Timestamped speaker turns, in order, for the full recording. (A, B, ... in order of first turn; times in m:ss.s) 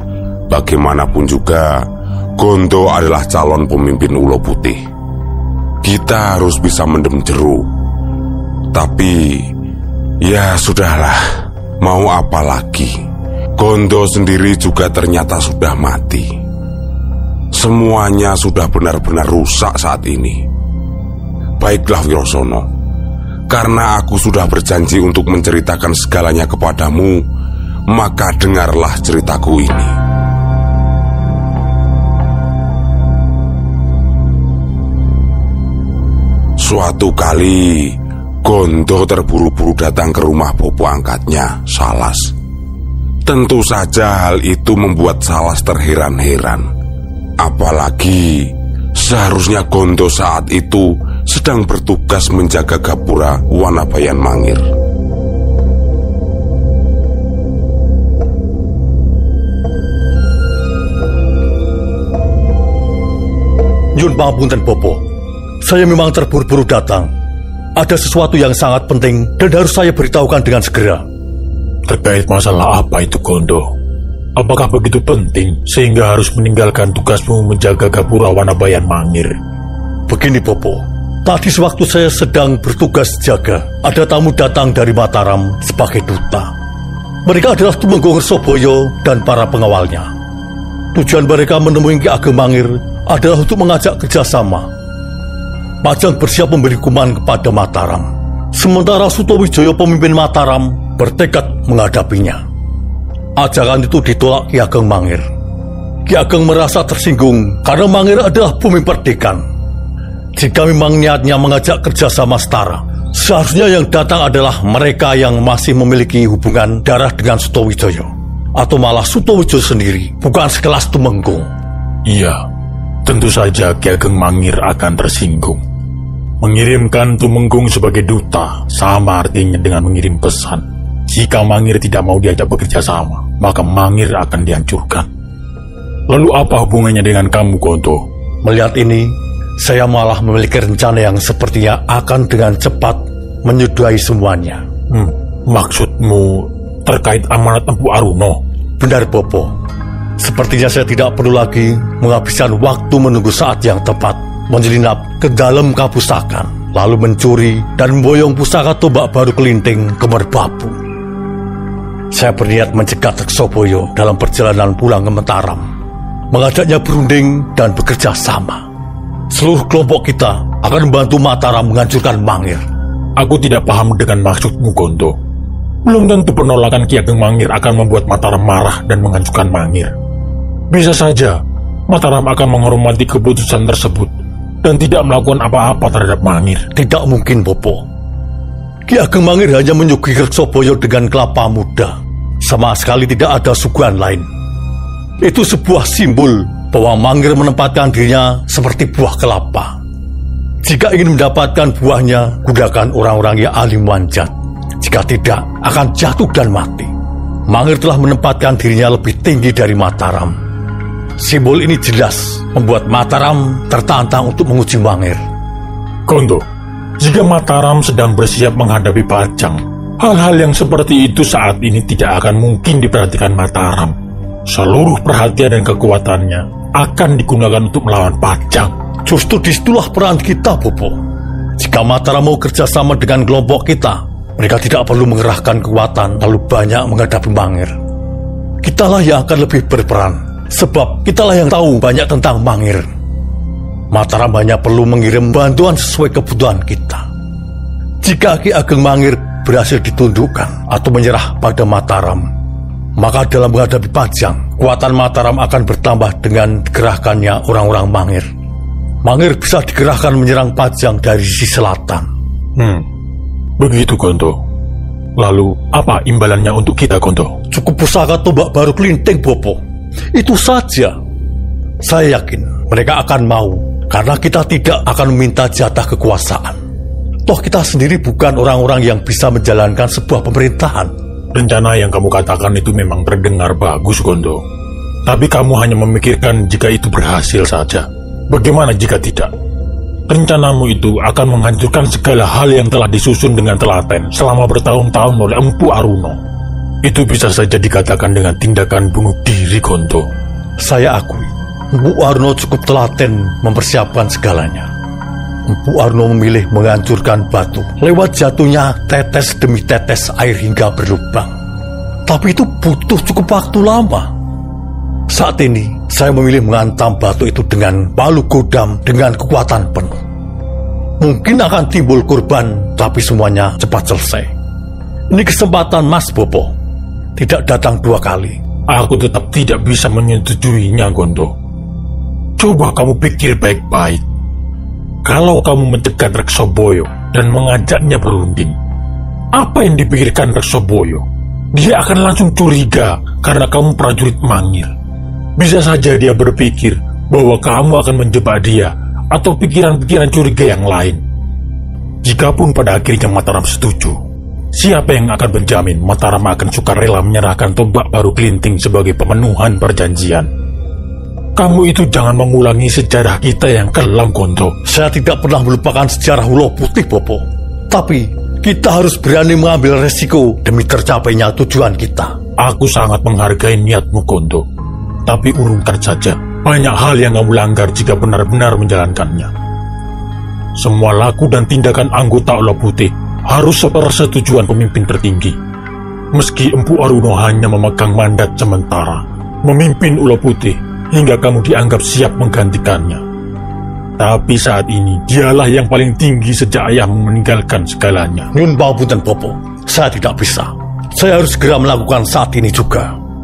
0:00.5-0:01.8 A
0:02.4-0:04.8 A
0:05.8-0:07.7 A
0:08.7-0:09.5 A
0:10.2-0:11.2 A
0:11.8-0:13.0 A
0:13.6-0:16.3 A
0:17.5-0:20.4 A
0:21.6-0:22.7 A
0:23.5-0:27.2 A
0:27.9-0:29.9 A
0:36.6-0:37.9 A
0:38.4-0:42.3 A
0:43.2-0:46.7 A
0:47.4-0:54.6 A
1:03.9-1:05.0 B
1:05.6-1:07.1 B
1:07.8-1:11.0 B
1:11.9-1:13.7 C
1:14.4-1:19.4 C
1:20.1-1:26.5 B
1:27.2-1:30.1 B
1:30.9-1:34.7 B
1:35.8-1:42.4 B
1:43.4-1:45.2 B
1:46.0-1:49.4 B
1:50.4-2:01.5 B
2:02.1-2:02.4 C
2:03.0-2:05.6 C
2:06.4-2:15.1 C
2:16.1-2:18.0 C
2:18.4-2:24.6 B
2:24.9-2:28.4 C
2:28.8-2:29.5 B
2:30.2-2:40.8 B
2:42.1-2:45.6 B
2:46.3-2:48.6 B
2:49.3-2:52.6 B
2:53.2-2:55.1 C
2:55.8-2:59.9 C
3:00.7-3:01.4 C
3:01.9-3:06.7 C
3:06.7-3:07.8 B
3:08.9-3:14.3 B
3:15.2-3:19.7 B
3:20.6-3:26.9 B
3:27.5-3:30.3 B
3:31.2-3:35.2 B
3:36.1-3:36.4 C
3:37.0-3:43.9 C
3:44.5-3:48.7 C
3:49.0-3:51.0 B
3:51.6-3:57.7 B
3:58.6-4:02.8 B
4:03.9-4:07.0 B
4:08.0-4:12.3 B
4:13.0-4:18.3 B
4:19.0-4:22.1 B
4:22.6-4:22.8 C
4:23.6-4:24.4 C
4:25.2-4:27.3 C
4:27.5-4:29.6 B
4:30.1-4:30.9 B
4:31.8-4:36.6 B
4:37.2-4:40.9 B
4:41.3-4:44.4 C
4:45.0-4:49.3 C
4:50.1-4:56.2 C
4:56.8-5:00.1 C
5:00.6-5:04.7 B
5:05.5-5:11.3 B
5:12.0-5:14.1 B
5:15.1-5:20.0 B
5:21.0-5:24.3 B
5:25.1-5:26.5 B
5:27.2-5:28.4 B
5:28.7-5:31.3 C
5:32.4-5:34.0 C
5:35.0-5:38.5 C
5:39.3-5:44.7 C
5:45.4-5:51.0 C
5:52.0-5:54.0 C
5:54.5-6:00.3 C
6:01.4-6:04.5 C
6:04.6-6:12.1 B
6:12.4-6:14.4 C
6:15.0-6:19.3 C
6:20.6-6:25.4 C
6:26.1-6:33.0 C
6:34.0-6:38.3 C
6:38.3-6:42.9 B